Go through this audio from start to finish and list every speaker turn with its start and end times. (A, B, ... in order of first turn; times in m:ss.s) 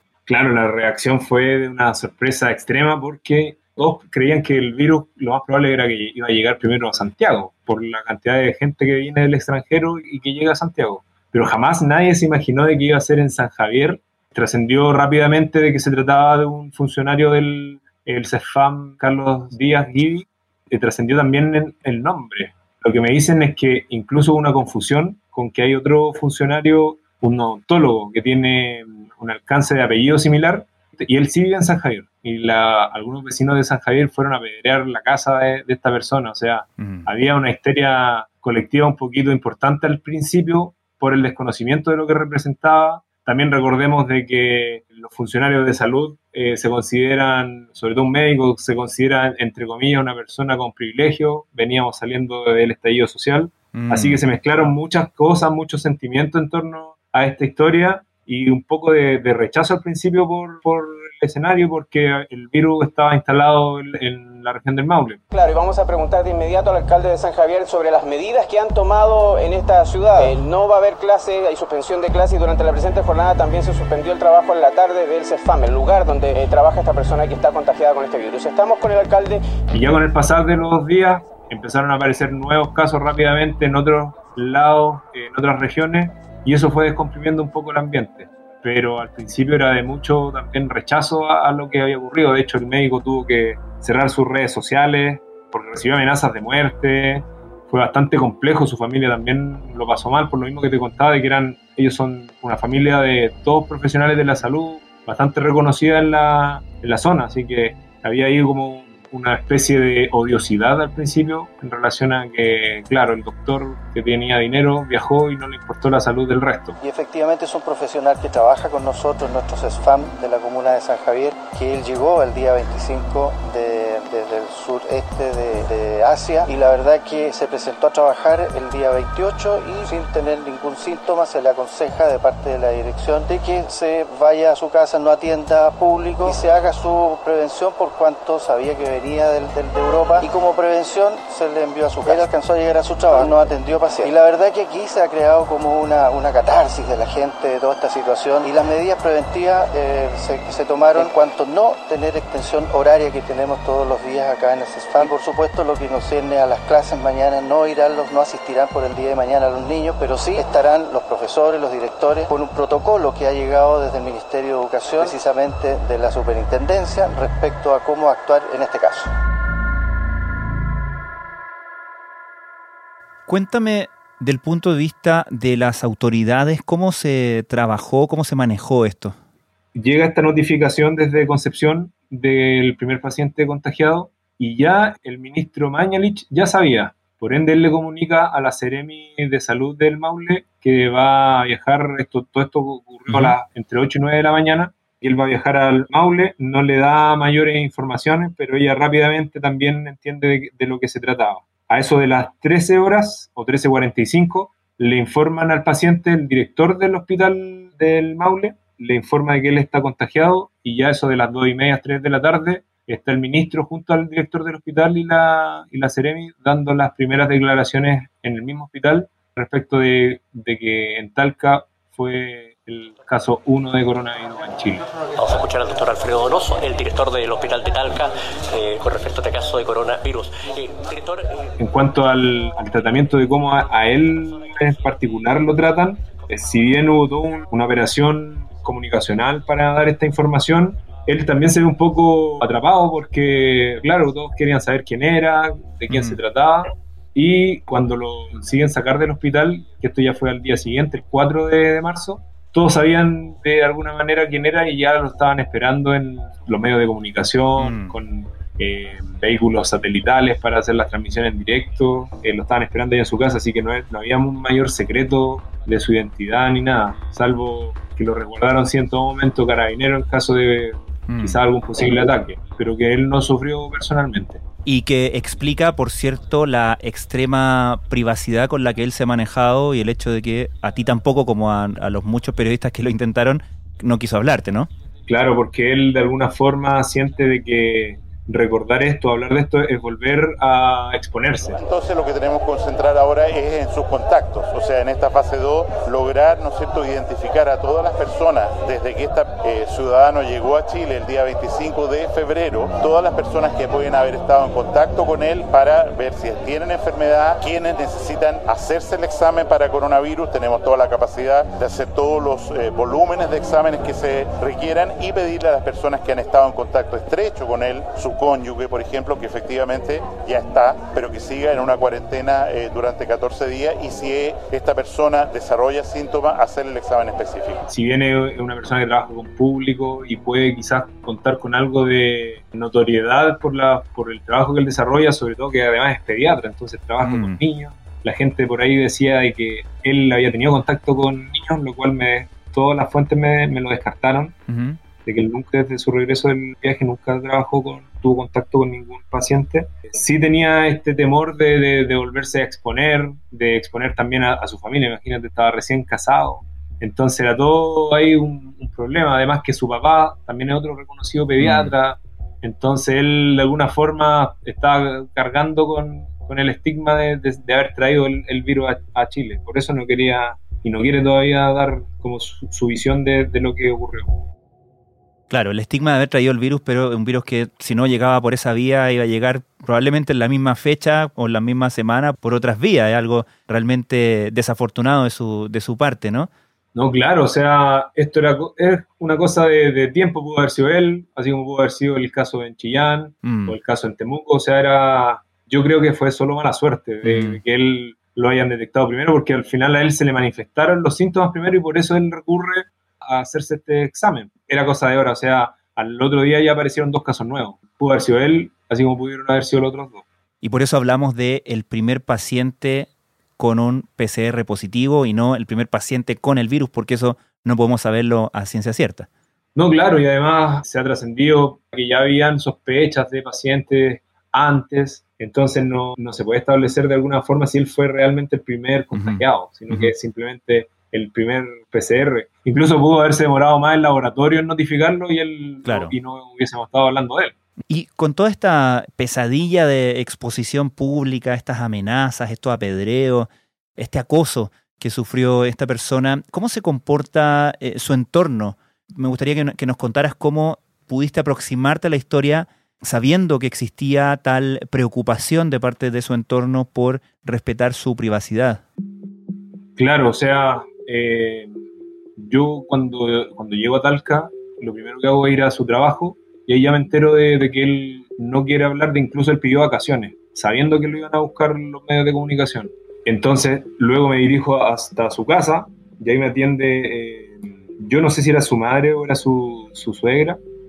0:00.3-1:05.2 A
0:36.8-0:37.1 B
0:53.7-0:54.2 B
1:05.3-1:19.5 C
1:19.7-1:56.8 A
1:56.8-2:49.1 D
2:53.3-2:59.1 B
2:59.7-3:44.8 A
3:13.1-3:13.3 B
3:45.2-3:51.4 E
3:51.6-4:34.4 A
4:05.9-4:06.2 B
4:17.6-4:17.9 B
4:31.1-4:31.4 B
4:34.6-4:44.7 B
4:45.1-4:51.6 A
4:51.6-5:27.6 F
5:27.7-5:44.3 A
5:37.0-5:37.4 B
5:44.5-5:44.8 B
5:45.0-6:14.1 A
6:01.4-6:01.7 B
6:15.3-6:26.3 B
6:26.7-6:50.0 A
6:33.2-6:33.5 B
6:37.0-6:37.4 B
6:50.4-6:59.1 B
6:59.5-7:17.3 A
7:08.9-7:09.9 B
7:15.6-7:15.9 B
7:17.7-7:38.6 B
7:39.8-7:41.6 A
7:42.2-8:00.4 A